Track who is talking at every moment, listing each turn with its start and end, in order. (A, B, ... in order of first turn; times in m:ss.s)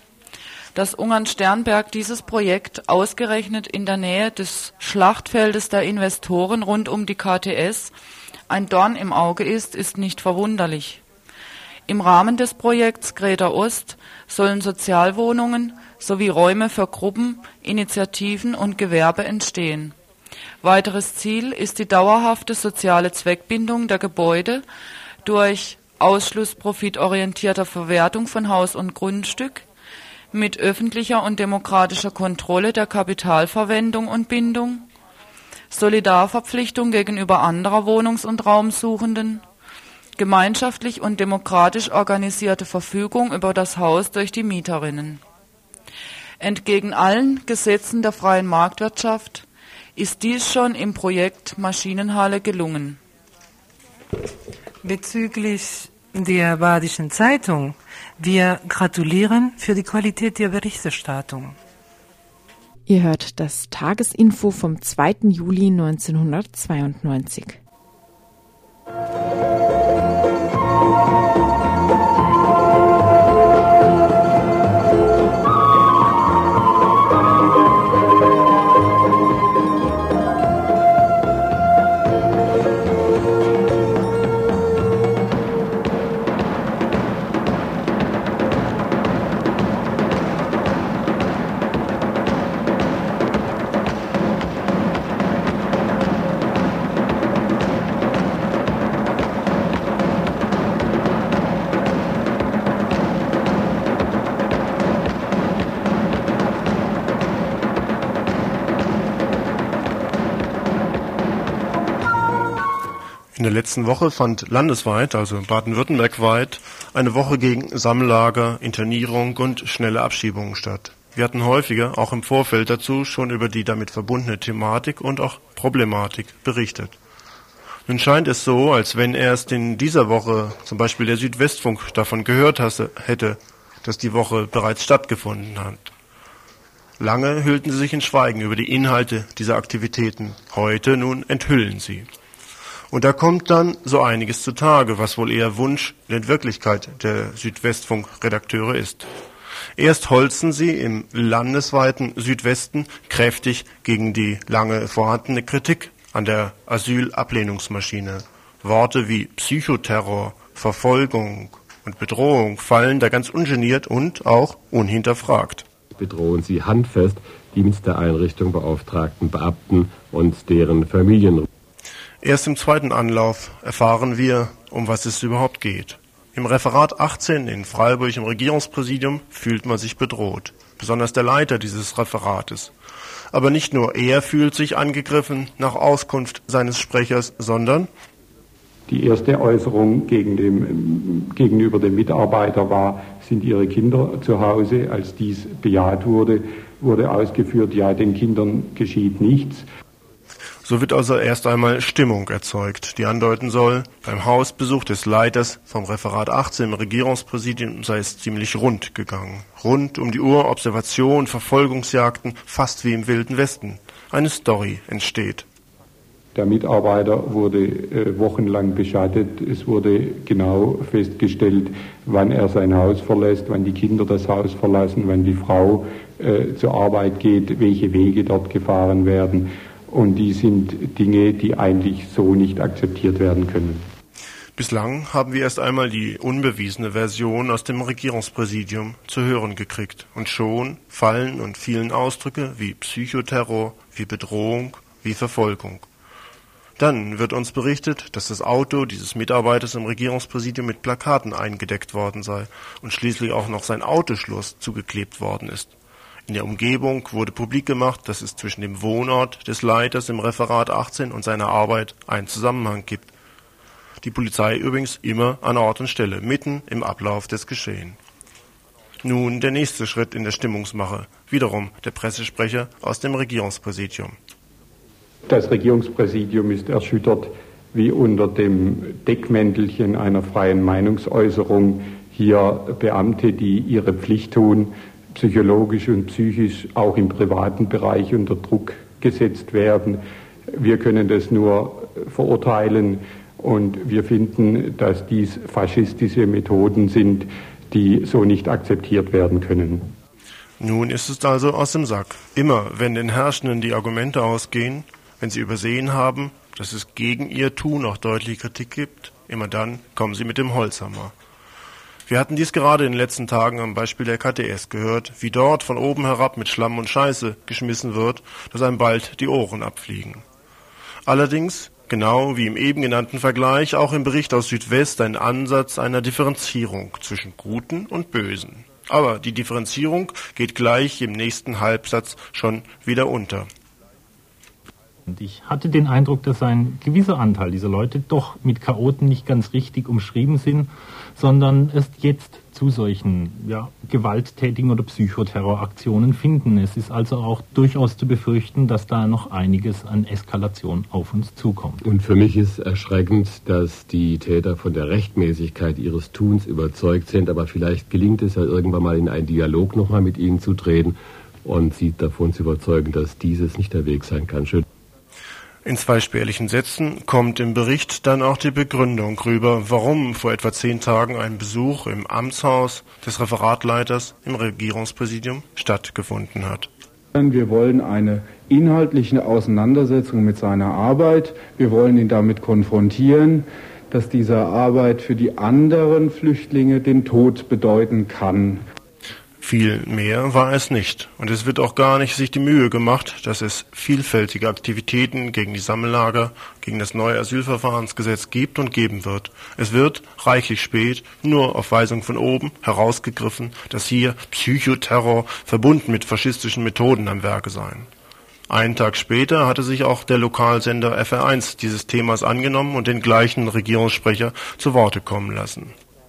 0:00.8-0:07.9 A
0:08.5-0:11.0 A
0:11.9-0:20.0 A
0:20.6-0:24.6 A
0:25.2-0:29.6 A
0:30.3-0:34.9 A
0:35.7-0:39.4 A
0:40.2-0:45.2 A
0:46.4-0:53.0 A
0:54.8-1:01.6 B
1:02.9-1:07.6 C
1:53.4-2:07.0 D
2:07.9-2:15.9 D
2:17.0-2:22.1 D
2:22.9-2:29.1 D
2:29.8-2:45.6 D
2:45.9-2:51.5 E
2:52.2-3:02.7 D
3:03.3-3:07.9 D
3:08.9-3:19.7 F
3:20.6-3:35.5 D
3:36.4-3:53.9 F
3:54.6-4:05.9 D
4:06.8-4:15.7 D
4:16.3-4:23.1 D
4:24.0-4:28.0 D
4:29.0-4:34.2 D
4:35.3-4:50.0 F
4:50.5-4:59.9 F
5:00.6-5:11.1 D
5:12.1-5:20.2 D
5:21.1-5:33.5 D
5:35.1-5:51.8 G
5:51.8-6:04.6 E
6:05.6-6:16.7 D
6:17.1-6:28.7 H
6:29.4-6:47.9 D
6:48.5-6:55.8 D